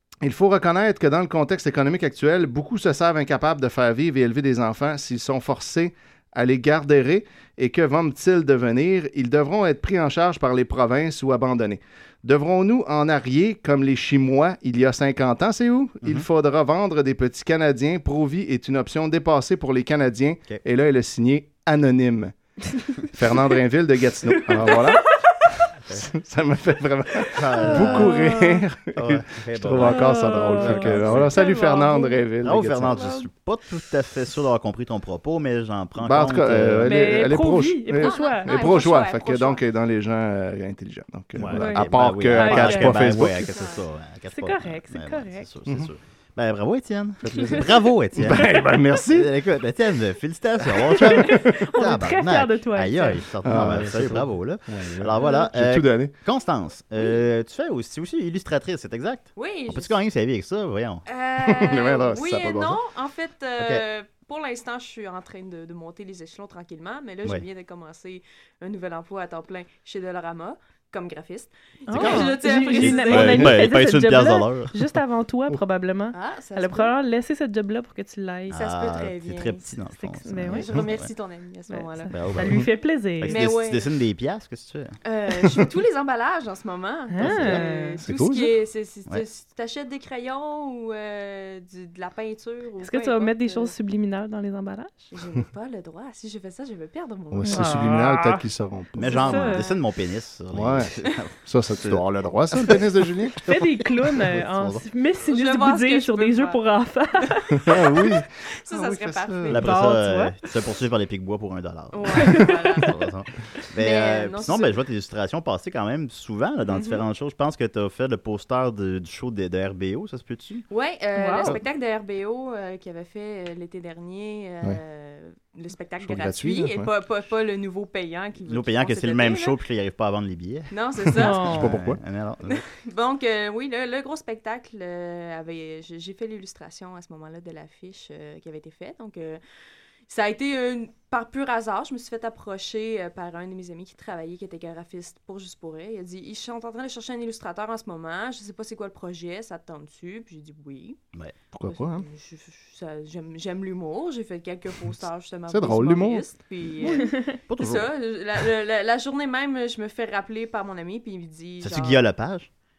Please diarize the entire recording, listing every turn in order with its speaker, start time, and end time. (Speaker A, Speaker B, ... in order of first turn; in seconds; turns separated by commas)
Speaker A: 0.2-22.4, Speaker A: 22.9-25.2, Speaker A: 25.9-33.1, Speaker B: 27.4-28.3, Speaker C: 27.6-28.6, Speaker B: 28.9-31.4, Speaker C: 29.8-32.2, Speaker B: 32.4-37.2, Speaker A: 36.0-43.4, Speaker C: 36.9-38.5, Speaker D: 38.0-39.6, Speaker B: 41.4-61.0, Speaker C: 41.5-43.3, Speaker D: 43.5-43.8, Speaker C: 44.3-45.5, Speaker A: 47.2-49.3, Speaker A: 50.8-51.5, Speaker C: 51.1-53.2, Speaker A: 53.4-56.1, Speaker D: 59.4-60.0, Speaker D: 61.1-73.5, Speaker A: 61.5-62.8, Speaker B: 63.6-63.8, Speaker C: 71.9-78.5, Speaker B: 71.9-74.9, Speaker D: 76.1-77.0, Speaker B: 78.5-81.1, Speaker D: 78.5-79.6, Speaker C: 80.0-80.8, Speaker D: 80.5-82.1, Speaker C: 81.7-83.5, Speaker B: 82.1-85.0, Speaker D: 83.3-83.9, Speaker D: 85.0-93.7, Speaker C: 87.1-88.0, Speaker B: 87.2-87.6, Speaker A: 87.5-88.5, Speaker C: 92.8-95.1, Speaker D: 95.1-97.8, Speaker A: 97.3-99.5, Speaker C: 97.5-98.4, Speaker B: 99.0-103.0, Speaker C: 99.0-99.7, Speaker A: 100.5-100.9, Speaker A: 101.4-103.6, Speaker C: 103.5-107.7, Speaker B: 104.3-104.8, Speaker D: 105.3-106.6, Speaker D: 107.2-109.6, Speaker A: 107.6-109.7, Speaker B: 109.5-120.7, Speaker C: 109.5-110.3, Speaker D: 111.9-112.9, Speaker D: 113.8-114.8, Speaker D: 120.7-129.6, Speaker C: 121.2-121.6, Speaker A: 126.0-126.9, Speaker B: 128.5-132.6, Speaker D: 130.7-131.4, Speaker C: 131.2-131.7, Speaker A: 131.4-132.0, Speaker D: 132.5-139.4, Speaker D: 140.1-151.0, Speaker A: 151.5-152.1, Speaker D: 151.7-162.1, Speaker A: 155.5-156.2, Speaker C: 156.8-157.4, Speaker B: 157.0-157.9, Speaker B: 161.6-162.5